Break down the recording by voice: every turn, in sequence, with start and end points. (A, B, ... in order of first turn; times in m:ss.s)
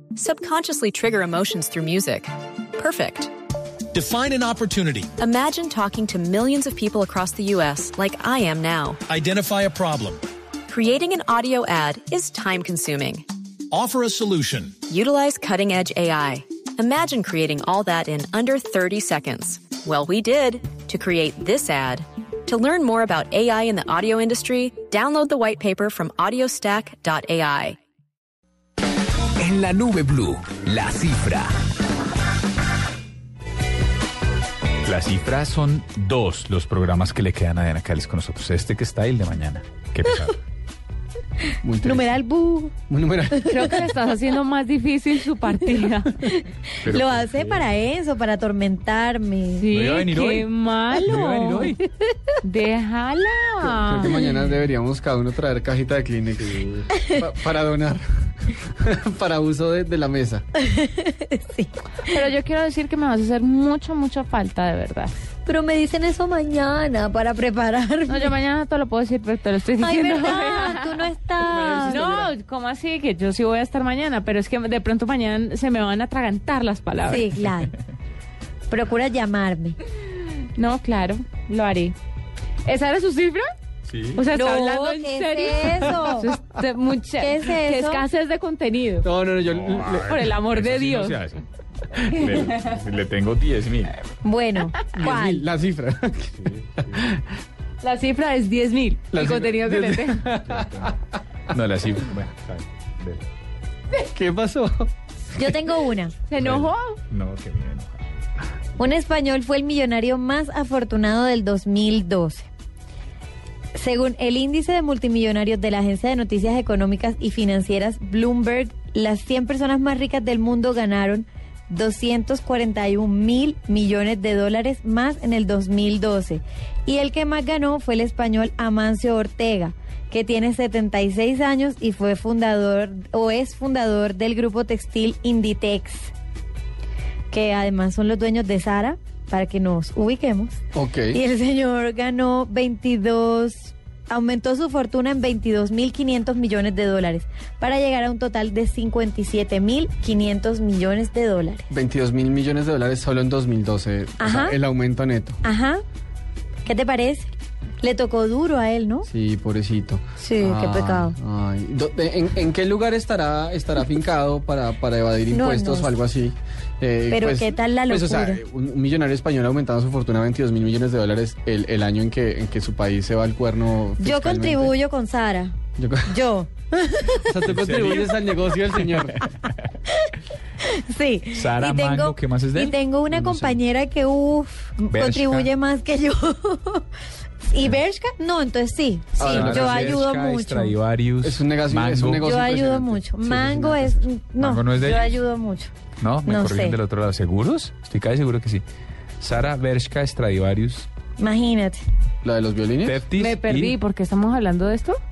0:00.2-0:03.3 A
0:03.9-0:05.1 B
0:05.2-0:09.0 A
0:09.1-0:10.2 B
0:10.7-0:13.2 A
0:13.7-0:14.8 B
0:14.9-0:27.8 A
0:29.4-0:31.4 C
0:34.8-0:40.4 D
0:41.6-0:42.0 E
0:41.8-0:42.7 F
0:42.9-0:43.5 E
0:43.3-0:43.6 F
0:43.4-0:46.1 G
0:46.2-0:49.6 F
0:46.8-0:47.6 D
0:49.5-0:51.8 G
0:49.7-0:50.5 D
0:51.0-0:51.8 D
0:52.4-0:54.2 G
0:53.7-1:00.4 E
0:56.4-0:56.8 D
1:00.6-1:01.7 F
1:02.0-1:05.1 G
1:05.4-1:08.3 F
1:08.1-1:11.1 G
1:09.8-1:12.1 F
1:11.6-1:12.3 D
1:11.7-1:17.3 G
1:17.0-1:17.7 F
1:18.7-1:19.8 F
1:20.5-1:21.9 G
1:22.6-1:23.4 G
1:23.9-1:24.2 D
1:24.1-1:29.1 G
1:24.3-1:26.3 F
1:27.2-1:28.0 F
1:29.0-1:30.2 E
1:29.5-1:31.4 D
1:30.0-1:31.2 G
1:32.0-1:34.0 D
1:32.1-1:32.6 G
1:34.2-1:35.4 F
1:34.9-1:37.2 E
1:36.4-1:37.0 D
1:37.8-1:40.2 G
1:39.1-1:40.9 E
1:40.5-1:40.9 D
1:41.5-1:43.2 D
1:43.9-1:44.9 E
1:45.3-1:46.2 F
1:46.3-1:47.0 G
1:46.4-1:47.9 D
1:48.8-1:52.5 F
1:53.7-2:16.1 F
2:17.3-2:31.7 F
2:20.7-2:21.2 E
2:31.7-2:35.4 E
2:34.2-2:34.6 F
2:35.4-2:35.8 F
2:36.6-2:37.3 F
2:37.8-2:39.1 F
2:39.1-2:54.7 E
2:40.2-2:41.2 F
2:45.3-2:45.9 F
2:47.1-2:48.4 F
2:54.0-2:55.6 F
2:55.8-2:56.2 E
2:56.1-2:57.3 F
2:57.2-2:59.3 E
2:57.4-2:59.7 D
3:00.6-3:06.8 F
3:01.3-3:02.8 D
3:03.1-3:03.4 E
3:03.3-3:03.5 D
3:04.9-3:05.5 D
3:07.5-3:10.8 F
3:09.2-3:10.0 E
3:09.2-3:12.3 D
3:11.2-3:14.0 E
3:12.2-3:15.7 F
3:14.4-3:15.2 D
3:16.0-3:18.6 D
3:16.2-3:16.8 F
3:19.2-3:20.9 D
3:21.2-3:21.8 F
3:22.2-3:23.0 E
3:22.8-3:23.8 D
3:23.1-3:25.0 G